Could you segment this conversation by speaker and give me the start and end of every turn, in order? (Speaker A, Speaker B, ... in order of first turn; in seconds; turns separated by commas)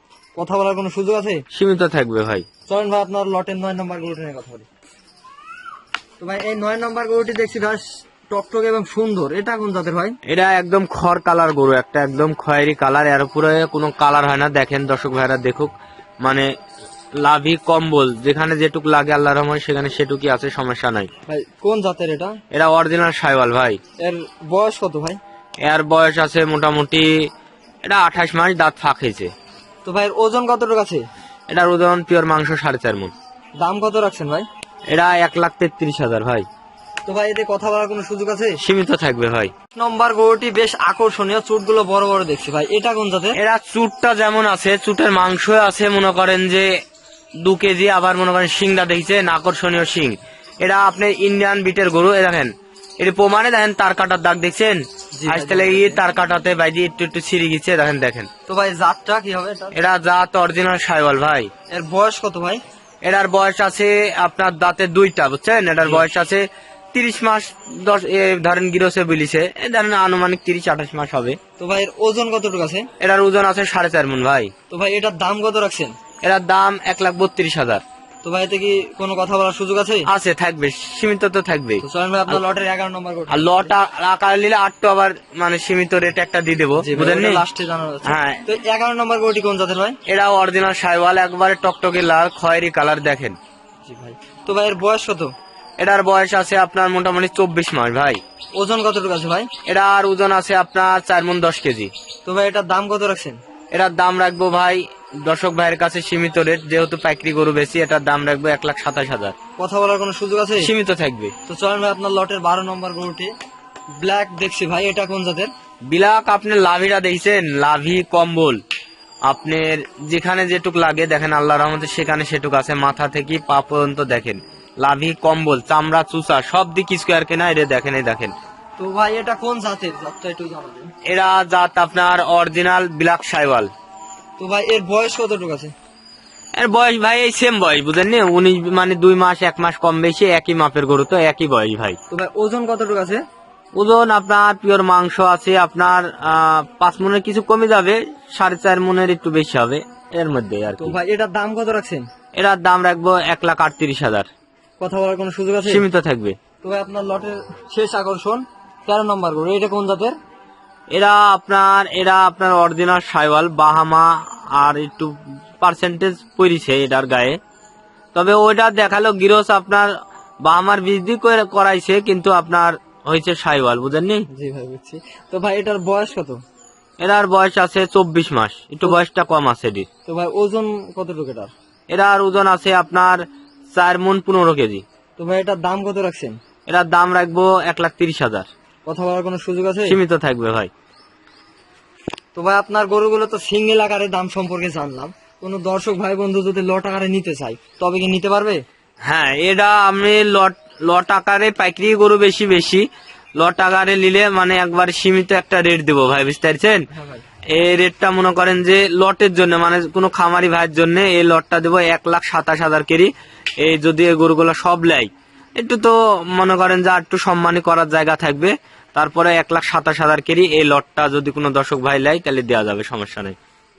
Speaker A: 0.3-1.4, Speaker B: 1.5-2.5, Speaker A: 2.7-4.7, Speaker A: 6.2-10.2, Speaker B: 10.2-16.5, Speaker B: 17.2-21.1, Speaker A: 21.3-22.4, Speaker B: 22.5-23.8, Speaker A: 24.0-25.2, Speaker B: 25.6-27.3, Speaker B: 27.8-29.3, Speaker A: 29.8-31.1, Speaker B: 31.5-33.1, Speaker A: 33.6-34.5, Speaker B: 34.9-36.5, Speaker A: 37.0-38.6, Speaker B: 38.6-39.5, Speaker A: 39.7-43.4, Speaker B: 43.4-46.7, Speaker B: 47.4-58.3, Speaker A: 55.1-56.0, Speaker A: 58.5-59.7, Speaker B: 59.7-61.5, Speaker A: 61.7-62.6, Speaker B: 63.0-71.4, Speaker A: 71.6-72.9, Speaker B: 73.0-74.5, Speaker A: 74.7-76.0, Speaker B: 76.2-77.8, Speaker A: 78.2-80.1, Speaker B: 80.1-82.4, Speaker A: 81.8-83.7, Speaker B: 83.3-87.4, Speaker A: 86.8-90.0, Speaker B: 88.0-88.4, Speaker B: 90.0-93.4, Speaker A: 93.8-95.3, Speaker B: 95.8-98.2, Speaker A: 98.5-99.5, Speaker B: 99.6-101.9, Speaker A: 102.2-103.4, Speaker B: 103.7-109.3, Speaker A: 109.6-110.7, Speaker B: 110.6-111.3, Speaker A: 111.5-113.3, Speaker A: 113.9-115.5, Speaker B: 115.9-118.6, Speaker B: 119.2-128.3, Speaker A: 128.8-130.9, Speaker B: 131.0-133.7, Speaker A: 134.4-135.7, Speaker B: 136.6-142.0, Speaker A: 142.1-143.2, Speaker B: 143.7-150.9, Speaker A: 150.8-152.1, Speaker B: 152.3-154.3, Speaker A: 154.8-155.8, Speaker B: 155.7-156.4, Speaker A: 156.6-160.2, Speaker B: 160.9-167.4, Speaker B: 168.1-169.9, Speaker B: 170.4-174.3, Speaker A: 174.3-176.4, Speaker B: 177.0-179.9, Speaker A: 180.1-181.5, Speaker B: 181.9-184.8, Speaker A: 185.2-186.4, Speaker B: 186.7-188.5, Speaker A: 188.8-190.0, Speaker B: 189.8-190.7, Speaker A: 192.3-198.6, Speaker B: 199.0-202.8, Speaker B: 203.4-206.8, Speaker A: 206.9-207.2, Speaker B: 207.5-223.3